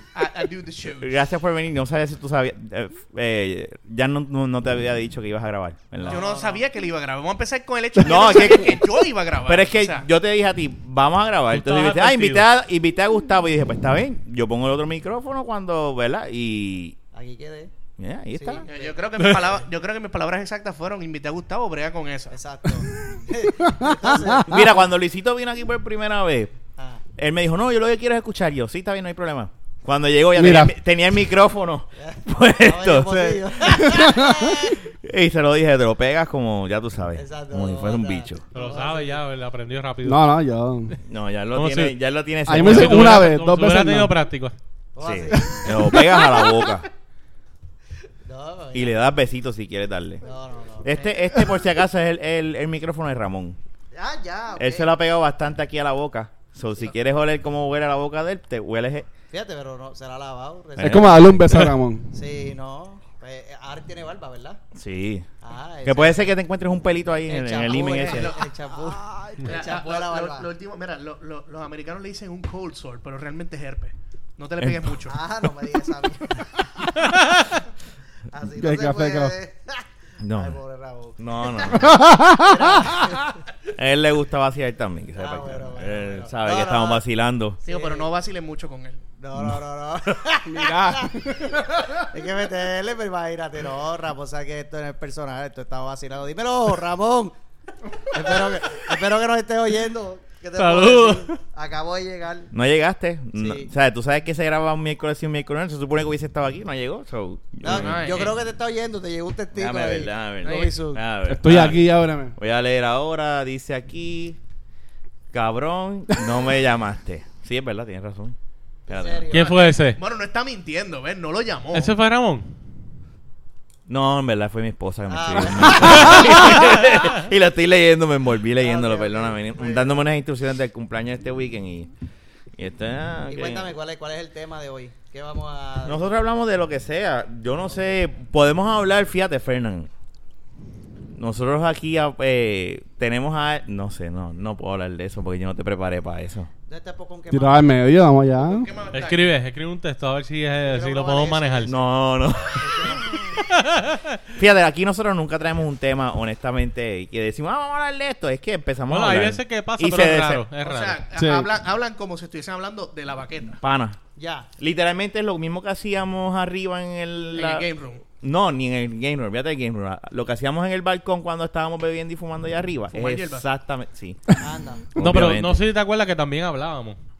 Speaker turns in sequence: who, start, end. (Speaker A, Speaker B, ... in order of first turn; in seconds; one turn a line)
Speaker A: 0.1-1.1
Speaker B: 0.9-6.2
Speaker C: 6.0-6.6
Speaker A: 6.1-10.1
Speaker B: 8.0-8.8
Speaker B: 9.4-17.0
Speaker D: 11.5-12.4
Speaker C: 17.1-17.7
Speaker B: 18.0-18.6
Speaker C: 18.3-19.0
Speaker A: 18.7-22.4
Speaker D: 19.2-19.5
Speaker C: 22.3-24.8
Speaker E: 23.1-24.5
Speaker B: 24.5-26.5
Speaker C: 26.8-27.0
Speaker B: 27.1-34.1
Speaker E: 30.3-30.7
Speaker C: 32.0-34.8
Speaker E: 33.8-34.6
Speaker B: 35.0-38.4
Speaker C: 37.1-39.2
Speaker D: 38.5-40.3
Speaker E: 40.0-40.9
Speaker B: 41.0-43.2
Speaker D: 41.5-41.9
Speaker E: 42.5-44.1
Speaker D: 42.5-44.5
Speaker C: 45.0-45.8
Speaker B: 45.0-46.9
Speaker C: 48.2-49.0
Speaker B: 48.7-50.2
Speaker C: 50.2-51.0
Speaker B: 50.8-53.6
Speaker C: 53.9-54.9
Speaker B: 54.6-59.0
Speaker C: 59.3-61.2
Speaker B: 60.8-61.7
Speaker E: 60.8-62.1
Speaker C: 62.1-64.6
Speaker B: 64.7-65.2
Speaker C: 65.4-66.3
Speaker B: 65.8-68.3
Speaker C: 67.3-70.5
Speaker A: 67.8-68.5
Speaker E: 69.0-69.4
Speaker A: 69.4-75.2
Speaker B: 74.6-74.9
Speaker C: 75.0-76.6
Speaker C: 78.3-83.4
Speaker E: 78.6-79.3
Speaker B: 80.2-80.6
Speaker B: 81.2-82.0
Speaker E: 81.6-83.2
Speaker B: 83.7-87.6
Speaker C: 85.2-87.0
Speaker C: 87.6-88.1
Speaker A: 87.7-89.0
Speaker C: 89.2-97.3
Speaker E: 90.4-92.1
Speaker C: 98.1-102.5
Speaker D: 100.6-101.4
Speaker B: 102.5-108.3
Speaker C: 103.3-103.7
Speaker C: 107.6-111.0
Speaker A: 107.7-108.4
Speaker B: 109.5-114.4
Speaker A: 110.4-110.7
Speaker E: 111.3-112.3
Speaker B: 115.3-118.3
Speaker B: 118.9-119.3
Speaker C: 118.9-119.6
Speaker D: 119.3-120.0
Speaker A: 119.3-121.9
Speaker D: 121.7-122.5
Speaker B: 123.9-131.9
Speaker C: 125.1-126.7
Speaker E: 125.8-126.6
Speaker D: 126.7-127.1
Speaker C: 128.6-129.9
Speaker B: 132.6-133.6
Speaker C: 133.2-136.1
Speaker B: 135.8-139.9
Speaker B: 141.1-146.5
Speaker C: 146.7-147.7
Speaker E: 147.3-148.7
Speaker A: 148.4-149.3
Speaker D: 148.9-151.8
Speaker C: 150.6-151.8
Speaker B: 151.7-153.3
Speaker C: 152.6-153.2
Speaker D: 153.4-154.2
Speaker B: 154.3-160.4
Speaker D: 158.9-161.0
Speaker A: 160.6-163.6
Speaker E: 161.1-161.5
Speaker B: 163.6-164.0
Speaker C: 164.2-164.5
Speaker B: 164.6-167.7
Speaker A: 167.3-168.0
Speaker B: 168.2-174.3
Speaker A: 172.9-173.4
Speaker C: 174.4-174.8
Speaker B: 174.9-175.6
Speaker D: 175.0-177.0